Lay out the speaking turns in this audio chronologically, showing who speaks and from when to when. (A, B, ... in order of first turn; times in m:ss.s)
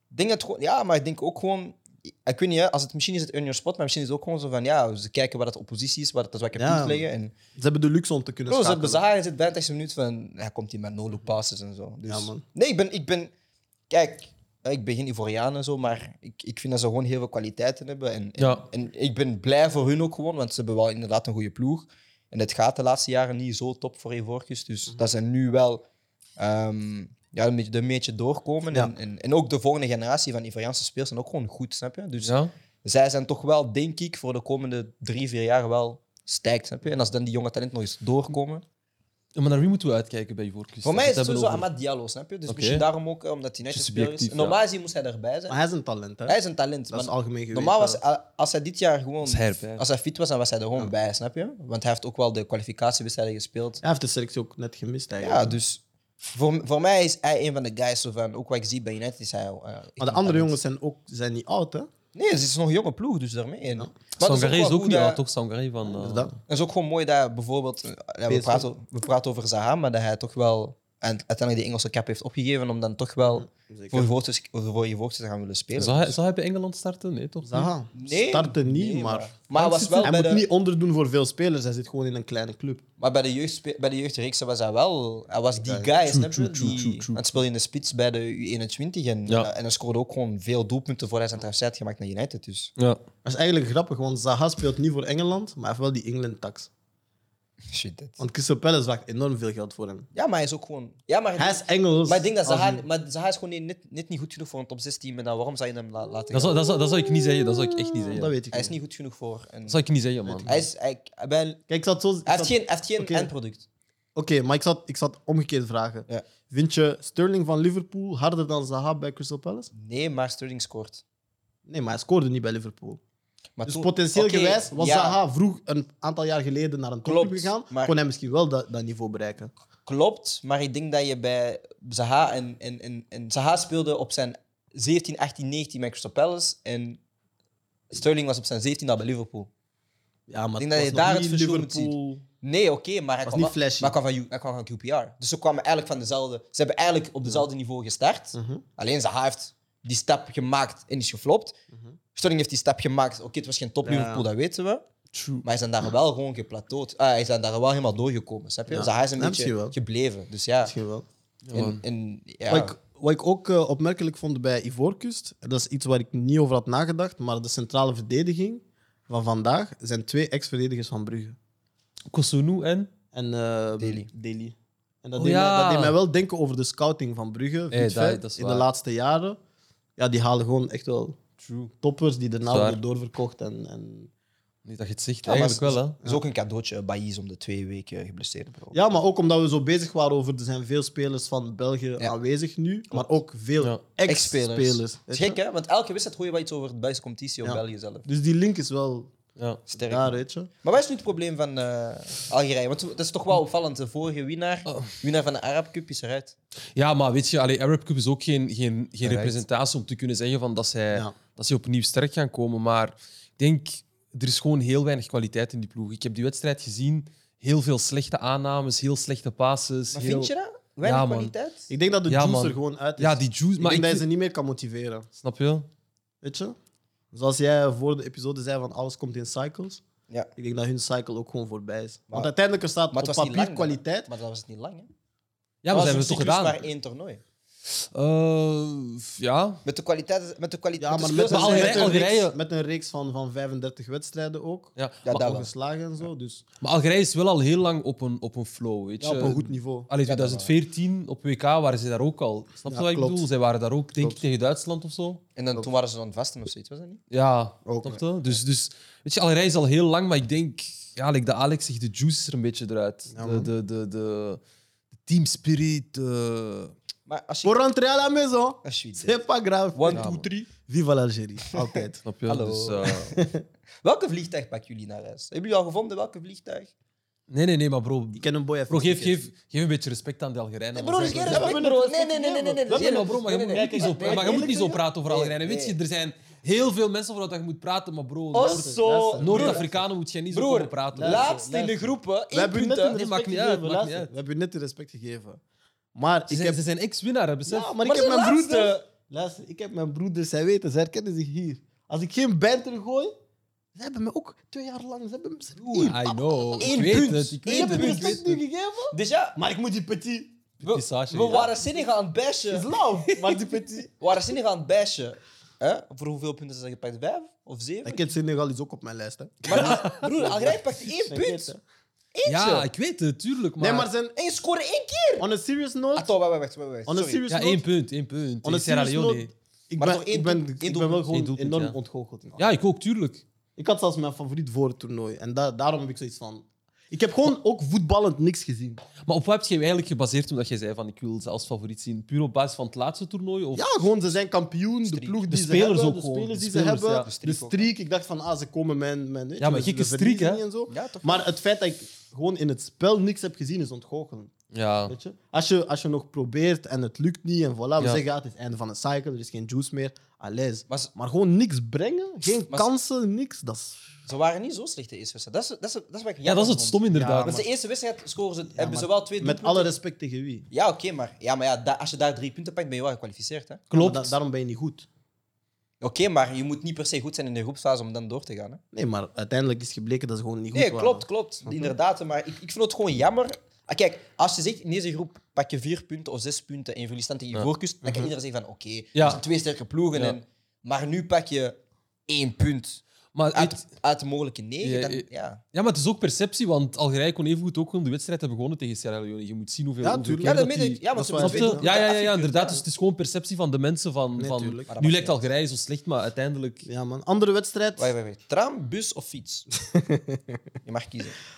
0:00.1-0:07.3 A
0:06.5-0:07.0 B
0:07.5-0:09.0 B
0:08.5-0:13.3 A
0:12.0-0:12.4 B
0:13.9-0:25.8 A
0:18.4-0:18.6 C
0:26.4-0:38.6 A
0:32.2-0:32.5 C
0:39.3-0:41.7 C
0:40.8-0:45.6 A
0:42.5-0:42.8 C
0:43.7-0:44.6 C
0:45.5-0:46.4 B
0:46.3-0:53.8 A
0:46.9-0:48.0 B
0:49.2-0:49.8 C
0:53.8-0:55.5 B
0:55.2-1:00.6 A
1:00.0-1:01.9 B
1:02.1-1:05.2 A
1:04.2-1:06.3 C
1:05.8-1:06.3 B
1:06.5-1:16.2 A
1:08.3-1:08.6 B
1:13.2-1:14.1 B
1:15.8-1:17.7 C
1:17.4-1:22.8 B
1:17.9-1:20.4 A
1:19.8-1:20.1 C
1:23.0-1:32.7 A
1:25.6-1:25.9 B
1:26.1-1:27.2 C
1:33.2-1:36.7 B
1:37.7-1:38.2 A
1:38.2-1:40.1 B
1:40.1-1:46.6 A
1:41.4-1:42.8 B
1:46.3-1:48.3 C
1:46.6-1:48.7 B
1:48.5-1:49.8 A
1:49.7-1:50.6 C
1:50.4-1:51.6 A
1:51.7-1:53.3 B
1:52.2-1:53.6 A
1:54.1-1:59.7 B
1:59.7-2:01.0 A
2:01.7-2:03.0 B
2:03.6-2:05.2 A
2:03.6-2:09.5 B
2:07.0-2:07.9 A
2:09.8-2:17.0 A
2:17.9-2:19.5 A
2:20.3-2:22.2 B
2:20.6-2:31.5 A
2:23.2-2:23.9 B
2:28.3-2:28.6 B
2:32.1-2:34.8 A
2:33.8-2:34.2 B
2:35.1-2:35.4 C
2:35.4-2:40.7 A
2:38.7-2:39.7 B
2:40.6-2:41.0 B
2:41.4-2:41.8 C
2:41.5-2:42.7 A
2:42.5-2:51.4 B
2:52.1-2:52.9 C
2:53.1-2:59.4 B
2:53.8-2:54.1 A
2:55.2-2:56.0 C
2:57.7-2:58.7 C
3:00.0-3:01.2 B
3:01.4-3:01.7 C
3:01.7-3:04.1 B
3:02.5-3:02.8 C
3:04.6-3:06.0 C
3:05.2-3:08.8 A
3:08.7-3:15.4 B
3:14.1-3:18.0 A
3:17.4-3:19.1 B
3:19.7-3:26.3 A
3:19.9-3:20.5 B
3:26.7-3:40.3 C
3:29.0-3:29.4 A
3:39.9-3:41.7 A
3:40.8-3:41.3 C
3:41.7-3:45.1 B
3:42.1-3:44.0 C
3:45.2-3:45.7 C
3:46.2-3:46.6 B
3:47.1-3:49.8 B
3:50.4-3:54.1 B
3:52.9-3:54.9 A
3:55.6-3:56.6 C
3:55.7-3:57.2 A
3:57.6-3:59.6 C
3:59.6-4:02.1 A
4:00.8-4:06.4 B
4:01.3-4:02.4 C
4:04.8-4:05.0 C
4:05.0-4:05.5 A
4:06.6-4:15.2 C
4:09.0-4:09.9 B
4:10.0-4:10.5 A
4:12.7-4:13.3 B
4:15.4-4:17.0 A
4:17.1-4:24.4 C
4:17.6-4:18.0 B
4:23.1-4:23.5 B
4:25.0-4:26.7 C
4:27.1-4:27.6 A
4:27.4-4:32.0 B
4:28.6-4:29.2 A
4:29.7-4:30.3 A
4:29.9-4:30.2 C
4:31.5-4:33.1 A
4:32.0-4:33.1 C
4:33.1-4:33.4 B
4:33.8-4:36.7 A
4:37.3-4:41.6 C
4:38.2-4:39.3 B
4:40.7-4:45.8 A
4:41.0-4:44.6 B
4:42.7-4:51.3 C
4:48.3-4:49.7 A
4:48.3-4:49.8 B
4:50.3-4:53.0 A
4:50.9-4:55.4 B
4:52.8-4:54.1 C
4:55.9-4:56.6 B
4:56.3-4:57.7 C
4:57.5-5:03.1 B
4:57.8-4:58.8 A
5:03.8-5:06.1 B
5:05.7-5:08.4 C
5:06.5-5:08.3 A
5:07.4-5:10.4 B
5:08.9-5:09.4 A
5:10.6-5:11.5 C
5:10.6-5:12.7 A
5:12.5-5:13.9 B
5:13.1-5:13.4 C
5:14.0-5:18.0 A
5:17.8-5:21.6 B
5:19.4-5:21.5 A
5:19.5-5:20.1 C
5:22.1-5:22.7 A
5:22.2-5:23.9 C
5:23.6-5:24.1 B
5:24.2-5:25.3 A
5:25.2-5:26.1 B
5:26.0-5:27.2 A
5:26.9-5:27.6 B
5:27.3-5:29.3 C
5:28.4-5:32.5 B
5:29.8-5:31.1 A
5:31.1-5:31.8 C
5:32.4-5:33.2 C
5:33.6-5:38.8 B
5:39.0-5:43.7 C
5:43.5-5:54.3 B
5:44.8-5:45.2 A
5:45.2-5:47.1 C
5:47.0-5:47.7 A
5:49.4-5:50.4 C
5:50.7-5:51.3 A
5:54.5-5:54.9 C
5:54.8-6:03.8 B
6:04.0-6:09.7 A
6:06.2-6:07.4 C
6:06.9-6:07.5 B
6:08.5-6:10.4 B
6:10.5-6:13.7 A
6:13.7-6:14.1 C
6:13.7-6:14.9 B
6:15.8-6:18.6 A
6:18.7-6:21.7 B
6:20.5-6:35.4 A
6:28.9-6:29.2 C
6:29.9-6:30.2 C
6:33.1-6:33.6 C
6:34.6-6:46.6 C
6:39.8-6:41.7 B
6:40.2-6:42.6 A
6:44.2-6:44.7 B
6:44.7-6:45.2 A
6:46.6-6:47.9 B
6:47.8-6:49.5 A
6:49.7-6:50.4 B
6:50.6-6:51.2 A